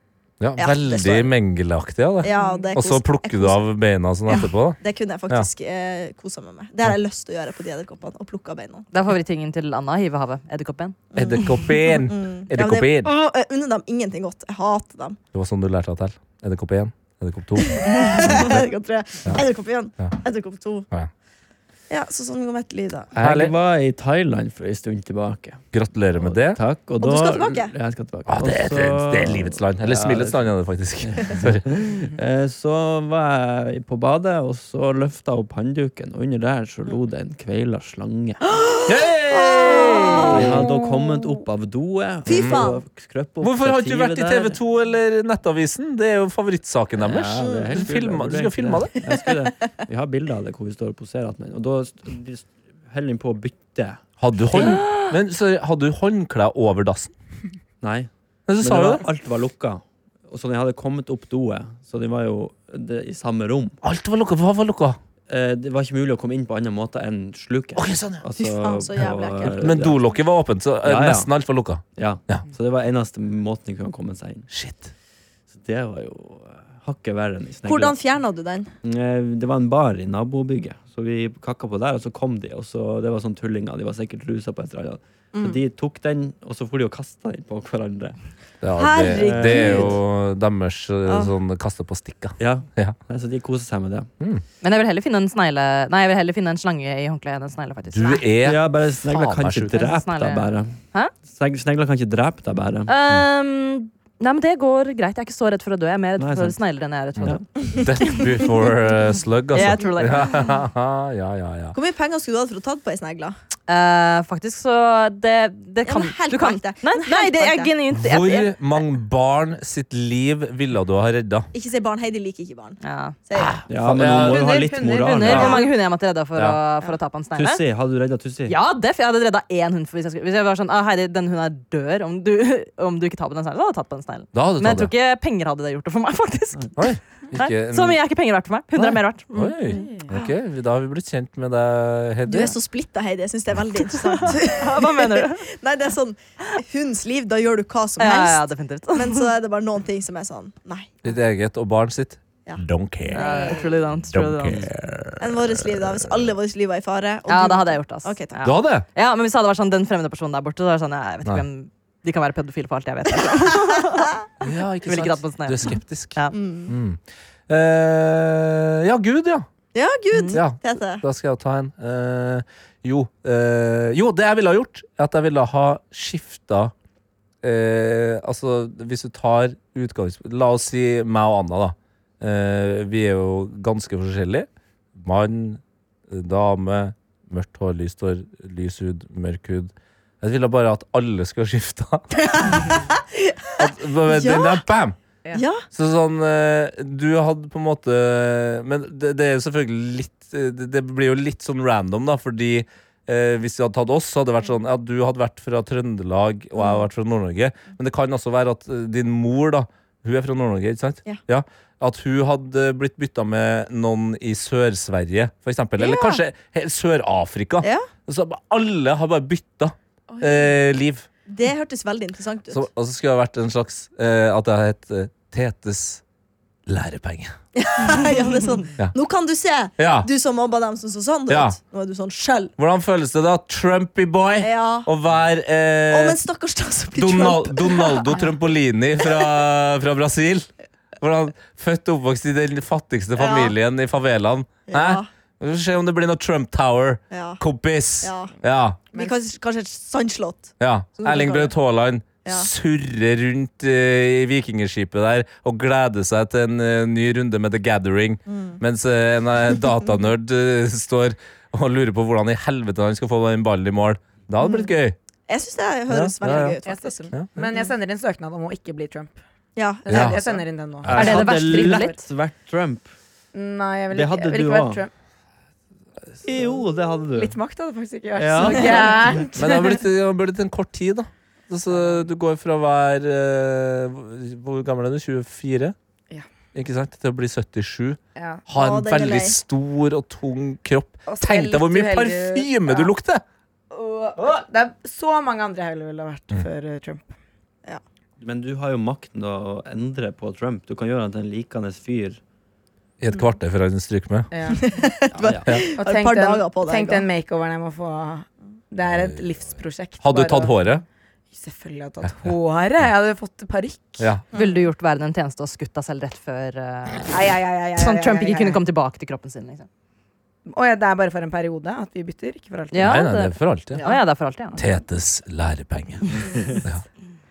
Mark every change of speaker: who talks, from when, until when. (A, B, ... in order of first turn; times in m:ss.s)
0:00.4-0:05.5 A
0:00.6-0:01.3 B
0:02.2-0:03.6 B
0:02.3-0:02.6 C
0:04.3-0:08.9 B
0:08.9-0:11.0 D
0:11.1-0:15.2 B
0:11.1-0:13.1 A
0:15.3-0:18.6 A
0:17.6-0:20.9 B
0:21.9-0:23.1 B
0:23.1-0:25.6 E
0:23.2-0:23.5 A
0:25.7-0:26.6 A
0:26.2-0:30.4 E
0:27.0-0:27.7 B
0:28.3-0:31.7 A
0:31.0-0:38.4 E
0:38.9-0:40.6 A
0:39.3-0:40.6 B
0:40.2-0:44.6 E
0:42.2-0:42.8 B
0:42.3-0:42.7 A
0:43.4-0:49.0 A
0:47.0-0:54.8 E
0:47.4-0:47.8 B
0:54.2-0:57.1 A
0:54.6-0:55.1 D
0:57.8-1:03.8 E
0:58.5-0:59.0 A
1:03.8-1:05.0 A
1:05.3-1:10.0 E
1:07.8-1:08.2 A
1:08.4-1:09.7 B
1:09.4-1:12.4 A
1:10.8-1:11.3 E
1:11.9-1:14.5 E
1:14.5-1:14.9 A
1:15.5-1:18.0 E
1:17.6-1:18.7 B
1:18.8-1:28.2 E
1:25.3-1:25.6 B
1:28.6-1:33.0 A
1:28.8-1:30.0 B
1:29.0-1:30.0 E
1:31.1-1:31.3 B
1:32.4-1:34.1 E
1:34.6-1:38.2 D
1:37.9-1:39.8 A
1:38.4-1:42.9 E
1:39.7-1:41.1 D
1:42.9-1:48.5 D
1:46.2-1:46.6 E
1:47.2-1:51.8 A
1:49.5-1:50.4 D
1:51.7-1:53.4 B
1:53.7-1:58.5 D
1:55.8-1:57.7 B
1:57.9-2:01.5 A
2:01.5-2:03.6 B
2:02.8-2:03.2 D
2:03.3-2:04.5 A
2:03.7-2:05.6 E
2:04.1-2:05.7 C
2:05.1-2:07.6 D
2:07.3-2:08.5 E
2:08.4-2:16.7 D
2:14.3-2:14.9 A
2:16.8-2:18.0 A
2:17.3-2:19.7 D
2:18.8-2:22.5 A
2:19.7-2:20.1 C
2:22.3-2:31.0 B
2:24.0-2:25.4 D
2:28.0-2:29.3 D
2:31.0-2:33.2 A
2:33.1-2:34.6 D
2:33.2-2:33.6 C
2:33.2-2:33.5 B
2:34.0-2:36.3 A
2:35.2-2:38.4 B
2:37.3-2:44.1 D
2:38.4-2:38.8 A
2:44.4-2:49.5 A
2:44.8-2:46.3 D
2:46.3-2:46.7 B
2:49.7-2:51.0 B
2:50.1-2:50.4 D
2:50.3-2:56.7 A
2:57.4-3:12.7 A
3:12.2-3:14.6 B
3:13.6-3:15.0 A
3:15.3-3:15.6 B
3:15.7-3:41.1 A
3:26.6-3:26.8 B
3:35.8-3:36.2 B
3:37.6-3:37.9 B
3:41.3-3:42.6 B
3:42.5-3:46.0 A
3:46.7-3:47.3 A
3:47.5-3:52.5 B
3:49.8-3:50.1 A
3:51.3-3:51.6 A
3:52.6-3:56.2 A
3:54.4-3:54.9 B
3:55.9-3:58.2 B
3:57.0-4:00.5 A
4:01.0-4:08.8 A
4:03.2-4:03.5 B
4:04.7-4:05.1 B
4:07.1-4:07.4 B
4:08.0-4:08.3 B
4:08.9-4:11.5 B
4:10.6-4:25.0 A
4:18.3-4:18.6 B
4:24.4-4:24.7 B
4:25.3-4:27.0 B
4:26.2-4:26.5 E
4:26.6-4:29.2 C
4:29.6-4:30.1 B
4:29.8-4:32.0 C
4:29.9-4:30.2 A
4:30.8-4:31.2 A
4:30.8-4:32.9 E
4:30.9-4:32.0 D
4:33.3-4:34.9 C
4:33.9-4:34.8 E
4:36.2-4:37.4 E
4:36.3-4:39.6 C
4:38.2-4:39.3 E
4:39.4-4:45.7 A
4:41.7-4:42.0 C
4:46.5-4:53.2 A
4:48.2-4:48.4 C
4:48.5-4:49.4 B
4:51.1-4:52.9 C
4:53.7-4:57.1 C
4:58.2-5:02.2 E
5:03.0-5:04.3 A
5:04.3-5:04.7 C
5:04.5-5:07.1 B
5:05.1-5:05.5 E
5:05.8-5:10.8 C
5:08.8-5:09.2 A
5:10.0-5:10.8 A
5:11.3-5:14.1 C
5:12.0-5:12.3 A
5:14.0-5:14.2 A
5:14.3-5:14.6 B
5:14.3-5:17.1 D
5:17.1-5:18.6 C
5:17.8-5:19.7 D
5:20.5-5:23.0 C
5:22.7-5:24.6 D
5:22.8-5:23.8 A
5:23.7-5:24.0 C
5:24.6-5:26.8 A
5:26.2-5:26.5 E